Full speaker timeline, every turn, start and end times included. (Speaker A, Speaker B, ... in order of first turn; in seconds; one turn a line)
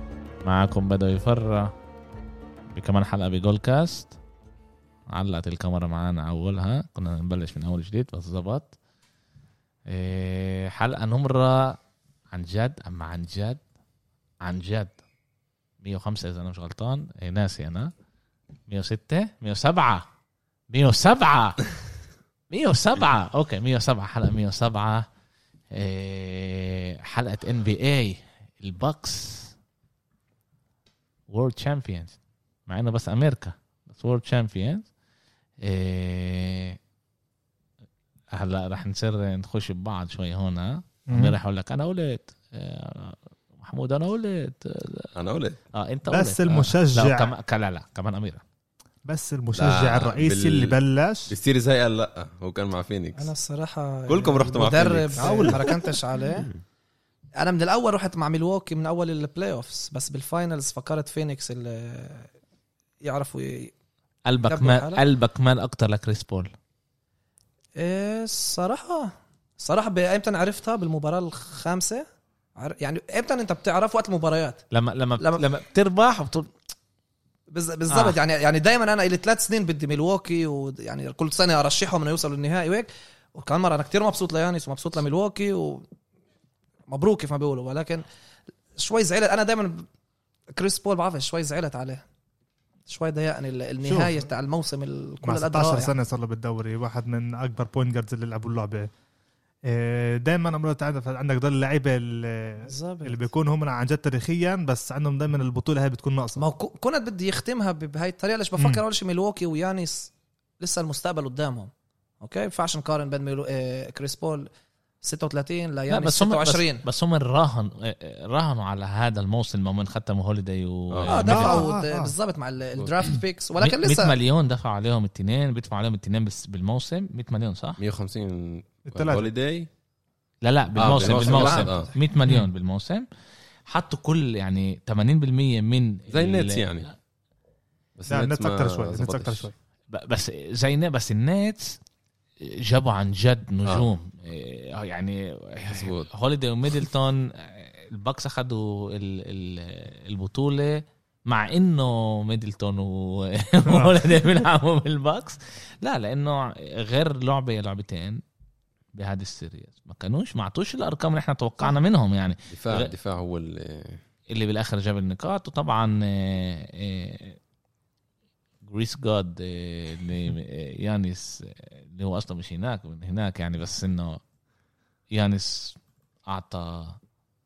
Speaker A: 0.4-1.7
Speaker A: 2.7-4.2
Speaker A: 5.1-8.7
Speaker A: 9.9-11.8
Speaker A: 12.3-13.6
Speaker A: 14.4-14.9
Speaker A: 15.8-17.9
Speaker A: 18.7-20.1
Speaker A: 20.7-21.6
Speaker A: 22.5-25.1
Speaker A: 25.7-29.5
Speaker A: 31.3-32.2
Speaker A: 32.7-34.9
Speaker A: 35.6-36.8
Speaker A: 38.3-45.1
Speaker B: 41.1-41.4
Speaker C: 45.1-45.6
Speaker A: 45.7-48.4
Speaker B: 46.1-47.3
Speaker B: 49.0-51.4
Speaker C: 49.6-50.8
Speaker C: 51.3-53.3
Speaker D: 53.2-56.5
Speaker C: 54.1-56.6
Speaker B: 55.2-55.6
Speaker D: 57.4-62.3
Speaker D: 63.0-63.7
Speaker A: 64.3-66.5
Speaker D: 64.5-65.0
Speaker D: 67.8-72.0
Speaker D: 72.6-74.6
Speaker A: 74.7-76.5
Speaker D: 75.2-75.5
Speaker D: 77.5-85.8
Speaker A: 77.9-78.2
Speaker D: 86.9-88.0
Speaker D: 88.8-89.9
Speaker D: 90.5-92.0
Speaker D: 92.9-95.9
Speaker B: 93.8-94.2
Speaker B: 95.2-98.9
Speaker B: 99.7-106.4
Speaker D: 102.6-103.2
Speaker D: 106.4-114.5
Speaker D: 115.0-116.8
Speaker A: 115.9-121.7
Speaker C: 120.9-121.2
Speaker D: 121.1-124.2
Speaker B: 121.3-122.1
Speaker C: 122.8-123.1
Speaker A: 123.6-127.8
Speaker C: 127.8-129.7
Speaker B: 128.9-129.3
Speaker A: 130.4-133.1
Speaker C: 130.8-131.9
Speaker D: 131.0-131.9
Speaker A: 133.7-136.7
Speaker C: 136.1-136.9
Speaker C: 138.0-139.5
Speaker B: 138.1-139.5
Speaker A: 139.9-141.8
Speaker A: 142.4-158.2
Speaker C: 145.7-146.1
Speaker B: 153.7-154.0
Speaker A: 158.9-162.9
Speaker C: 162.5-164.0
Speaker A: 164.3-167.4
Speaker A: 168.6-174.2
Speaker A: 175.1-177.0